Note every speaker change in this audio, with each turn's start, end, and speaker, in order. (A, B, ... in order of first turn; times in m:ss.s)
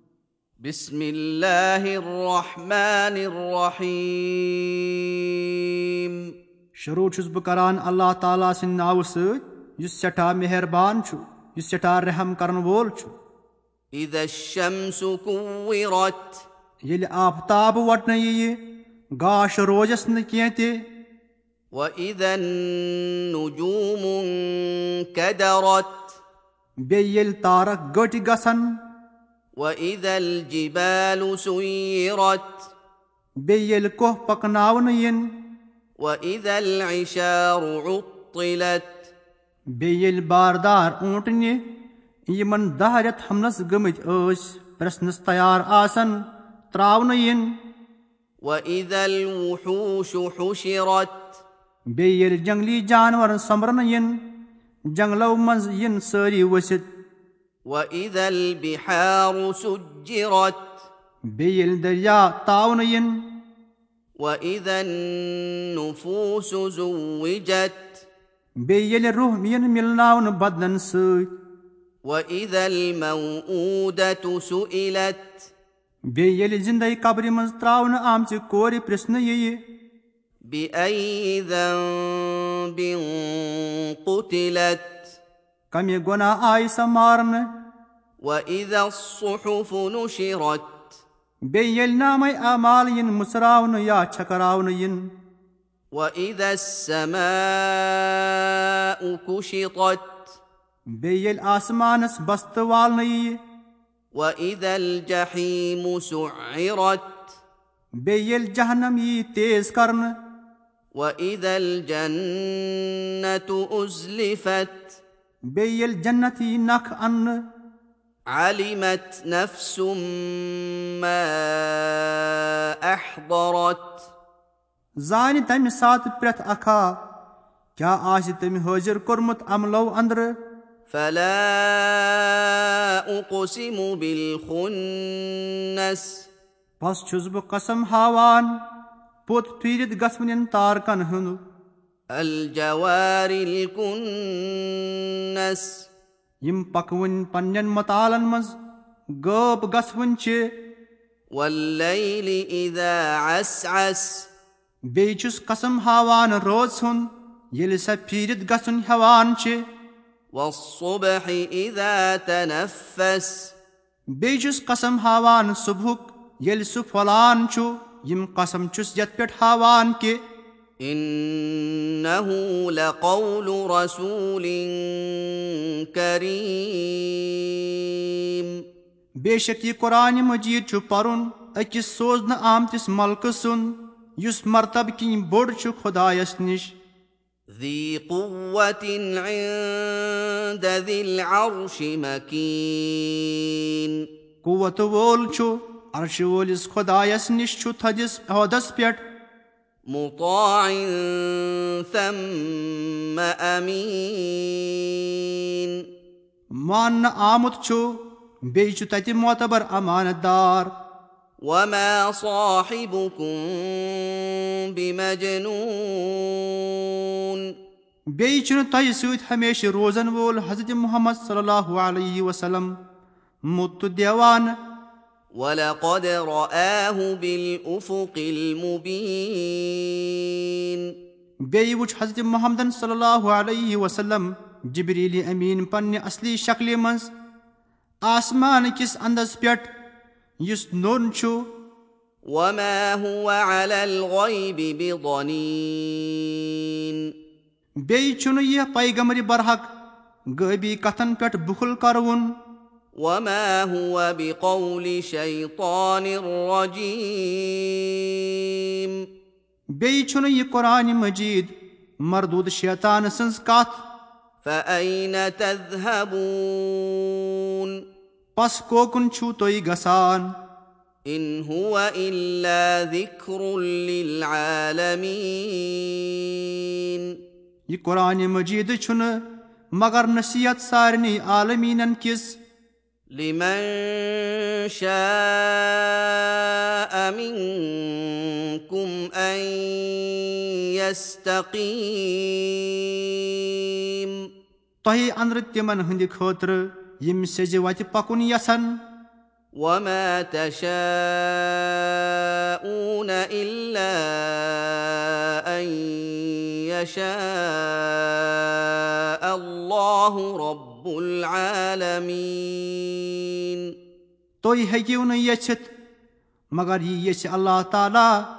0:00.6-0:06.2 A
0:06.8-0:13.1 B
0:13.9-0:16.4 A
0:16.8-0:18.6 B
0:19.2-0:20.7 B
0:21.8-0:26.2 A
0:26.9-0:28.6 B
0:29.6-0:32.7 A
0:33.4-0:35.2 B
0:36.0-0:39.1 A
0:39.8-0:41.6 B
0:42.3-0:46.2 B
0:46.7-0:47.4 B
0:48.4-0:51.4 A
0:52.0-0:54.1 B
0:55.0-0:56.8 B
0:57.7-1:00.8 A
1:01.4-1:03.1 B
1:04.2-1:08.0 A
1:08.6-1:11.3 B
1:12.0-1:15.5 A
1:16.1-1:19.6 B
1:20.5-1:25.2 A
1:25.7-1:27.5 B
1:28.2-1:31.0 A
1:31.5-1:35.0 B
1:35.9-1:40.4 A
1:41.0-1:43.4 B
1:44.1-1:47.3 A
1:48.0-1:50.1 B
1:51.0-1:55.0 A
1:55.6-1:57.4 B
1:58.3-2:04.1 A
2:05.0-2:06.9 B
2:07.8-2:10.3 B
2:10.9-2:16.3 A
2:16.8-2:18.5 B
2:19.3-2:21.4 B
2:22.1-2:25.9 A
2:26.4-2:28.6 B
2:29.2-2:30.4 B
2:31.3-2:34.3 A
2:34.9-2:39.6 B
2:40.3-2:43.5 A
2:44.1-2:50.2 B
2:50.8-2:58.5 A
2:59.2-3:06.7 B
3:07.5-3:14.0 A
3:14.4-3:19.0 B
3:19.9-3:25.8 A
3:26.6-3:28.0 B
3:28.5-3:30.7 B
3:31.4-3:37.4 A
3:38.2-3:42.7 B
3:43.5-3:44.5 B
3:45.4-3:50.8 A
3:51.5-3:57.1 B
3:58.0-3:59.7 B
4:00.4-4:01.4 B
4:02.3-4:07.0 A
4:07.9-4:09.7 B
4:10.4-4:12.3 B
4:13.0-4:18.9 A
4:19.8-4:21.5 B
4:22.0-4:23.8 B
4:24.4-4:27.7 A
4:28.4-4:30.3 B
4:31.1-4:37.1 A
4:37.7-4:39.2 B
4:39.8-4:42.4 B
4:43.1-4:54.1 A
4:54.8-4:58.8 B
4:59.6-5:13.6 A
5:14.4-5:15.7 B
5:16.5-5:18.1 B